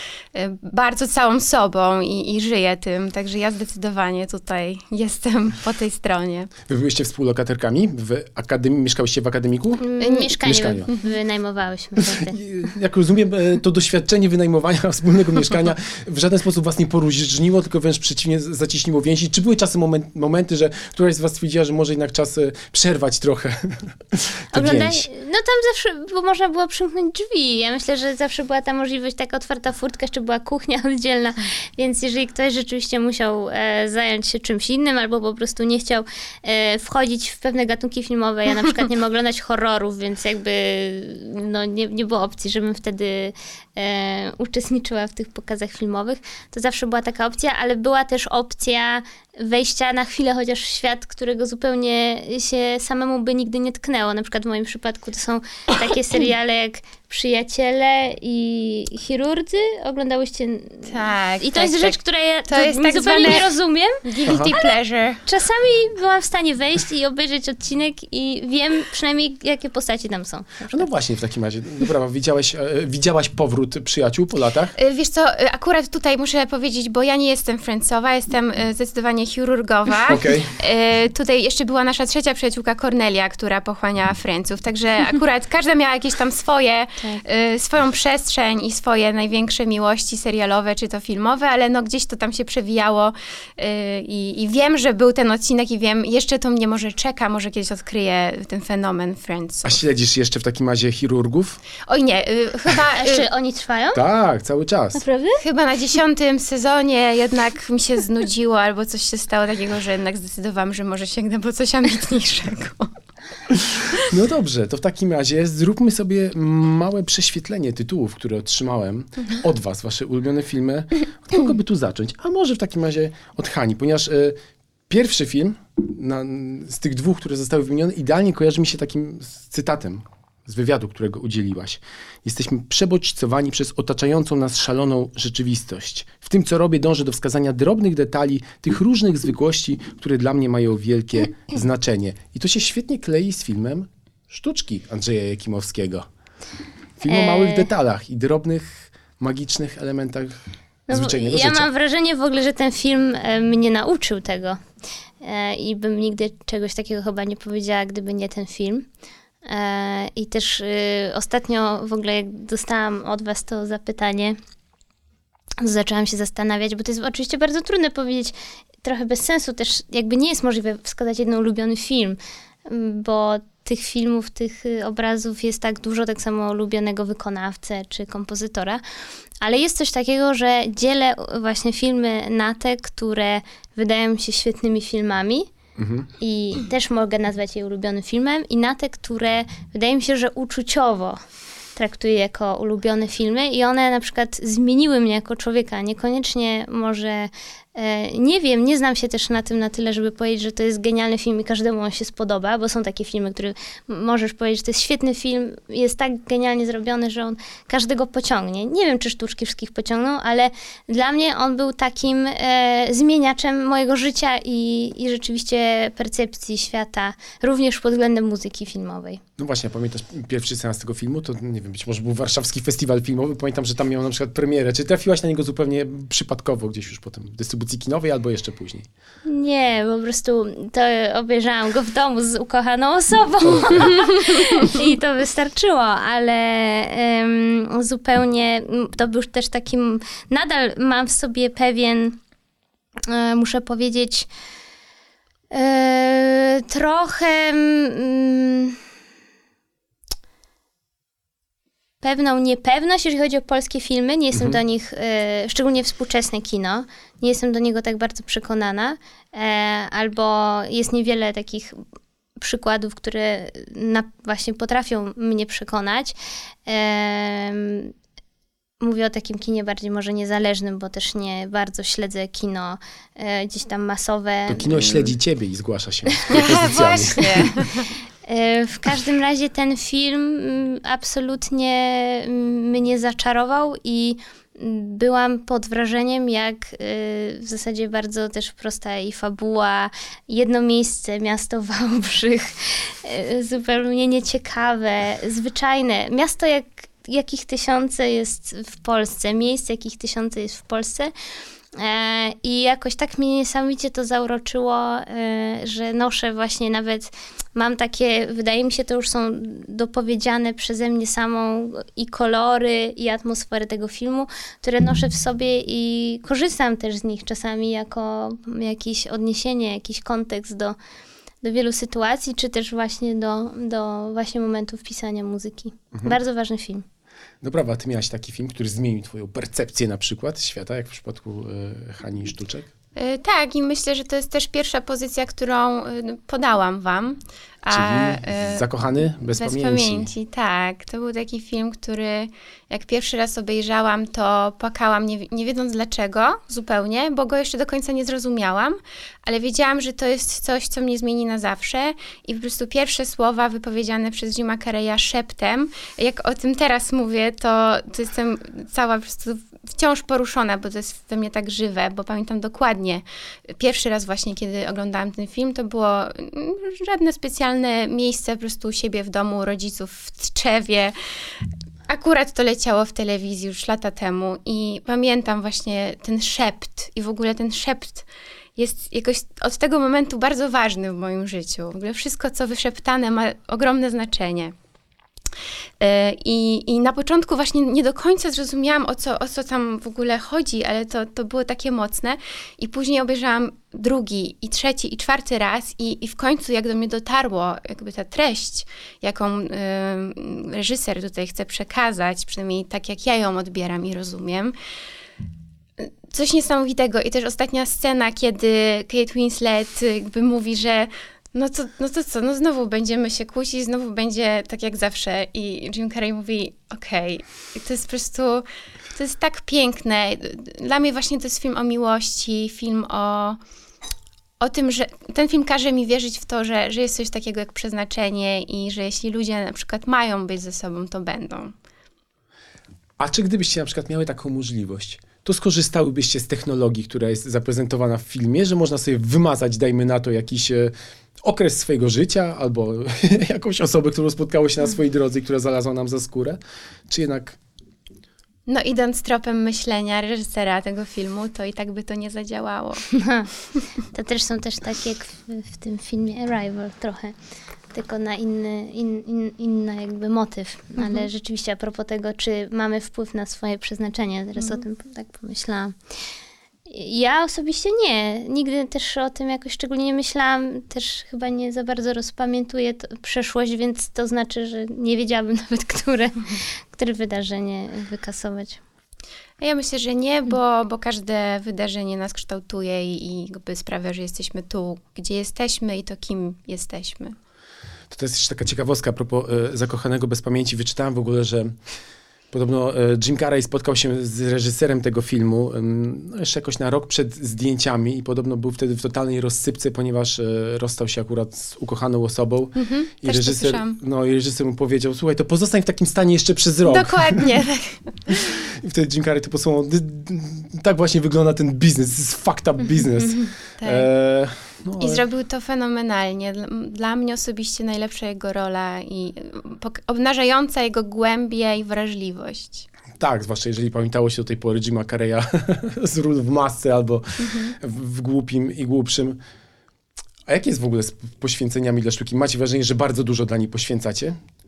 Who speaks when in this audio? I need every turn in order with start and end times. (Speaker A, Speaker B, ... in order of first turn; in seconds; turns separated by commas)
Speaker A: 0.3-6.5, Speaker B: 6.7-9.8, Speaker C: 9.8-12.4, Speaker A: 10.0-10.3, Speaker B: 10.4-10.9, Speaker A: 10.9-11.1, Speaker B: 12.0-25.1, Speaker C: 24.5-64.7, Speaker A: 60.9-63.5, Speaker A: 64.0-65.2, Speaker C: 65.2-70.9, Speaker B: 70.7-74.7, Speaker A: 74.8-99.8, Speaker B: 80.1-80.5, Speaker B: 99.6-101.6, Speaker A: 101.9-103.3, Speaker C: 102.9-104.0, Speaker B: 103.9-105.0, Speaker C: 104.9-105.4, Speaker A: 105.4-112.9, Speaker B: 113.9-124.4, Speaker B: 124.9-146.1, Speaker C: 147.0-147.7, Speaker B: 147.0-150.3, Speaker C: 150.9-154.6, Speaker B: 150.9-151.7, Speaker C: 155.2-158.8, Speaker C: 159.4-164.4, Speaker C: 165.6-178.8, Speaker C: 179.4-185.5, Speaker B: 185.8-186.1, Speaker C: 186.2-191.2, Speaker C: 191.8-219.2, Speaker B: 219.4-228.9, Speaker C: 229.2-242.2, Speaker C: 243.1-244.3, Speaker C: 245.5-248.8, Speaker C: 252.0-261.7, Speaker B: 254.3-254.6, Speaker C: 262.4-266.1, Speaker C: 266.6-267.9, Speaker C: 268.8-275.1, Speaker B: 274.5-277.5, Speaker A: 276.3-277.9, Speaker C: 278.2-301.1, Speaker C: 301.7-320.8, Speaker C: 321.4-326.8, Speaker B: 325.9-326.2, Speaker B: 327.4-332.7, Speaker A: 332.9-338.6, Speaker B: 337.7-340.1, Speaker A: 339.4-363.0, Speaker A: 363.6-370.9, Speaker A: 371.9-384.5, Speaker A: 385.8-404.5, Speaker A: 405.8-423.4, Speaker A: 424.4-431.5, Speaker B: 433.0-440.7, Speaker B: 441.2-447.4, Speaker A: 448.5-452.9, Speaker C: 452.9-457.1, Speaker C: 457.7-465.7, Speaker A: 460.8-461.1, Speaker C: 466.7-478.6, Speaker A: 479.4-487.1, Speaker B: 487.9-491.5, Speaker B: 492.3-507.3, Speaker A: 502.6-503.8, Speaker A: 506.6-508.3, Speaker B: 508.1-515.0, Speaker A: 513.0-513.9, Speaker A: 514.8-522.7, Speaker B: 522.9-529.2, Speaker A: 527.2-527.5, Speaker B: 530.3-534.2